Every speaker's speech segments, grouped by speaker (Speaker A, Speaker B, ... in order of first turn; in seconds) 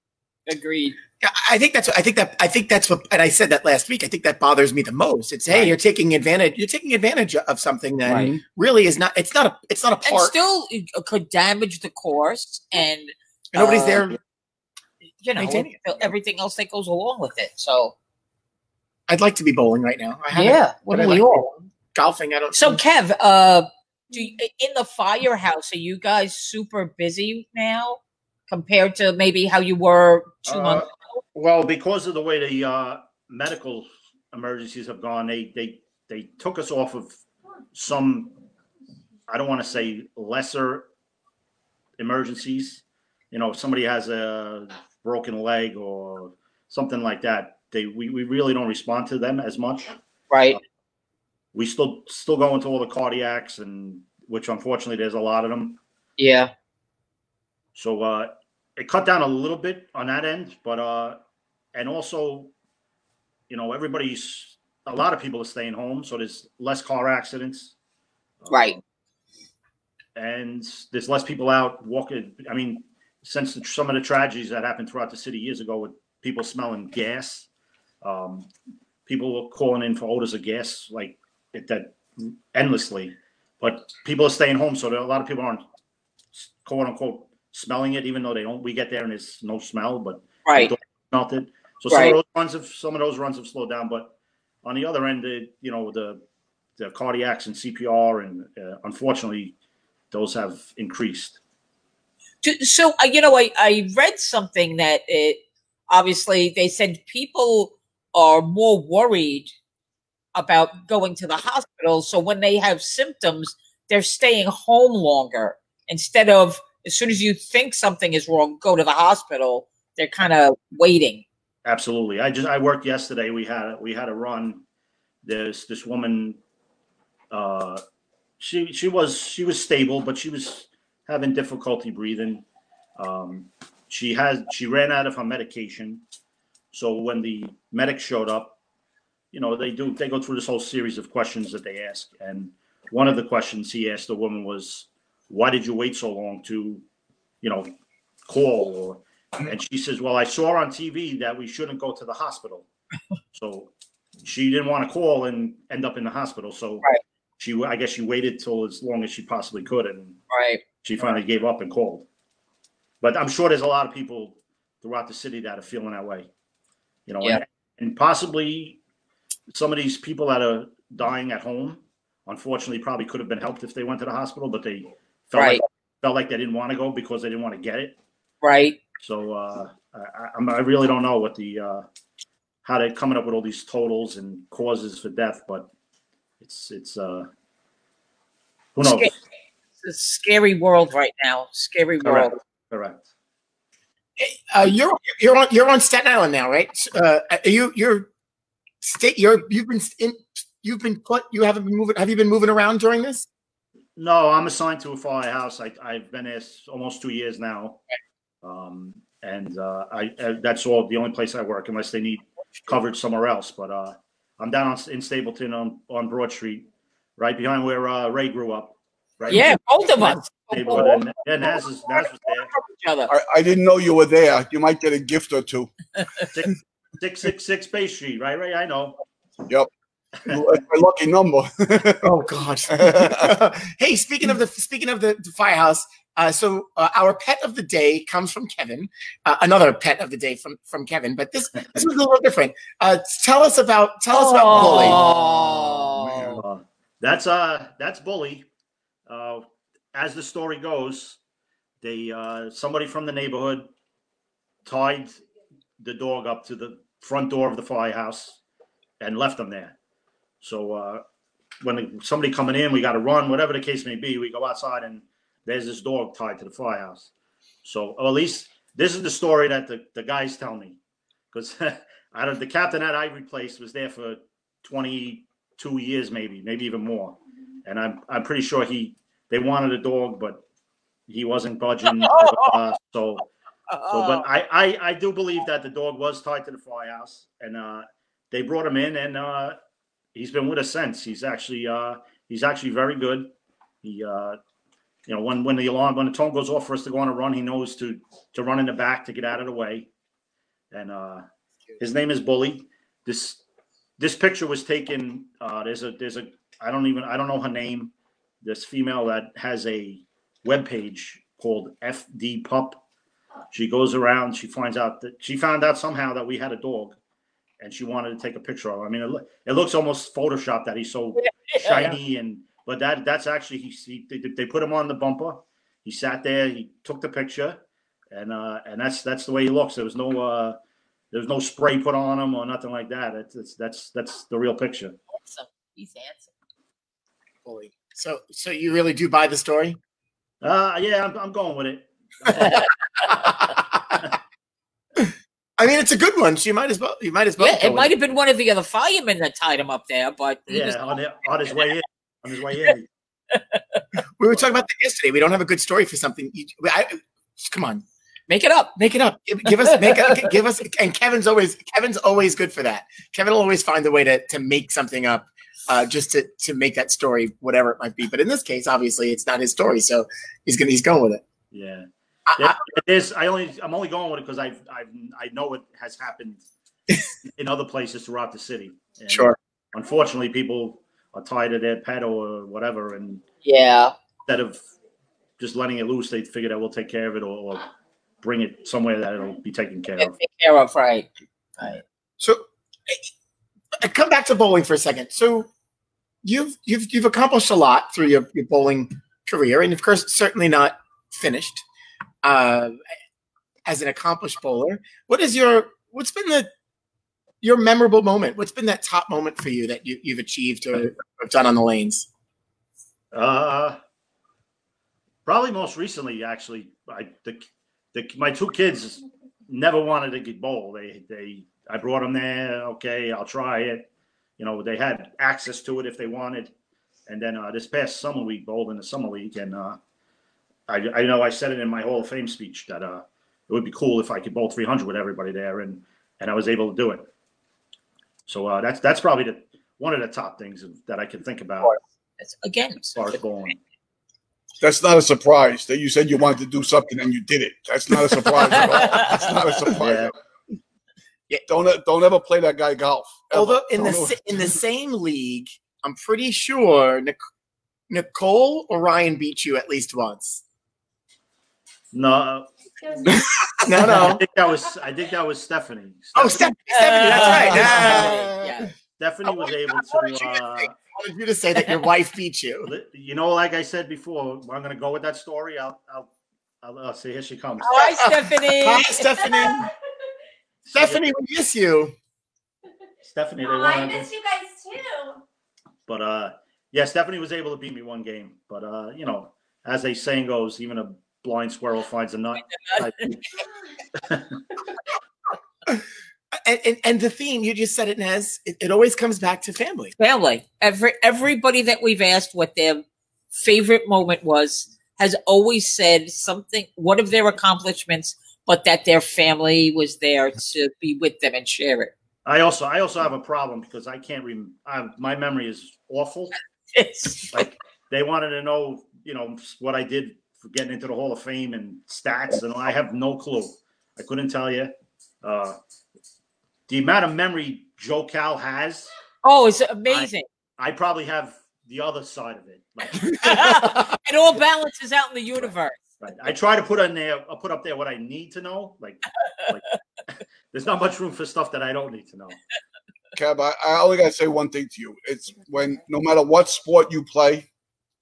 Speaker A: 0.5-1.0, 8.1-8.3, 10.1-14.1, 15.2-17.9, 20.3-21.5, 22.5-30.9, 50.3-50.6, 56.2-56.5, 68.5-68.8, 90.5-90.7, 91.9-92.2, 102.4-109.5, 110.3-121.2, 160.3-160.6, 175.3-175.6, 178.4-178.8, 188.8-189.1, 189.8-192.3, 219.3-221.0, 221.9-223.1, 244.1-246.4, 281.9-282.6, 283.7-284.3, 321.2-321.9, 335.1-336.3, 347.4-350.8, 353.3-353.8, 358.3-358.8, 359.5-360.3, 383.4-383.9, 390.0-391.8, 442.2-443.2, 466.7-468.7, 477.6-479.3, 492.6-493.1, 500.0-511.9, 516.7-517.5, 529.2-530.3, 533.1-535.8
Speaker B: 1.2-10.4, 13.5-14.2, 15.4-15.8, 19.1-22.8, 194.2-198.1, 198.8-203.3, 232.0-245.0, 337.4-339.8, 345.0-347.9, 354.2-357.8, 358.8-371.2, 372.3-372.6, 379.1-379.4, 392.2-393.1, 393.8-395.5, 396.2-401.6, 402.2-402.8, 403.7-406.5, 407.4-412.1, 453.3-457.2, 457.9-460.4, 463.6-464.2, 466.1-468.6, 469.3-472.7, 478.0-479.7, 480.7-481.9, 496.3-499.9
Speaker C: 8.1-8.4, 223.1-225.7, 230.3-232.1, 232.8-233.3, 246.1-246.4, 444.6-450.1, 451.5-454.2, 543.1-547.5
Speaker D: 30.5-37.2, 37.7-38.4, 39.3-40.9, 42.0-50.0, 51.5-55.8, 57.8-61.2, 61.7-62.5, 63.5-67.7, 68.4-68.8, 70.2-77.5, 78.0-78.5, 79.1-85.6, 86.3-96.2, 96.8-99.5, 100.1-101.4, 121.7-124.6, 125.2-126.4, 127.3-127.8, 128.4-132.4, 133.0-136.0, 136.7-138.6, 139.3-146.8, 147.4-147.7, 148.3-152.7, 153.3-153.7, 154.2-156.9, 157.4-160.2, 160.8-162.1, 163.0-166.3, 167.1-168.8, 169.5-178.0, 179.0-181.8, 182.6-185.7, 186.4-187.3, 188.8-189.2, 192.0-193.1, 204.0-207.8, 208.4-216.7, 217.2-222.5, 226.3-229.0, 246.4-248.5, 249.1-251.2, 251.8-253.7, 254.7-255.2, 255.8-258.4, 259.0-259.8, 260.4-261.0, 261.6-267.1, 267.6-270.8, 271.3-280.4, 281.1-283.3, 283.9-289.6, 290.1-293.3, 293.8-294.4, 295.1-299.9, 300.7-301.2, 301.8-303.4, 304.0-312.8, 313.5-317.0, 317.6-327.6, 328.1-330.6, 331.1-335.0, 340.4-342.7, 350.5-352.9, 371.5-376.4, 377.3-383.2, 384.3-384.6, 385.4-387.7, 388.2-390.1, 413.1-413.8, 415.3-426.5, 427.1-429.8, 430.7-437.1, 438.3-441.8, 442.9-443.6, 449.8-450.1, 461.9-462.5, 463.8-467.8, 469.0-470.8, 472.6-476.1, 476.6-478.1, 480.6-481.1, 483.1-484.1, 485.9-493.2, 494.0-494.3, 512.2-516.4, 517.3-524.7, 525.2-525.6, 526.7-528.9, 529.9-533.6, 536.0-539.8, 540.5-542.4
Speaker E: 462.8-463.3, 483.4-485.2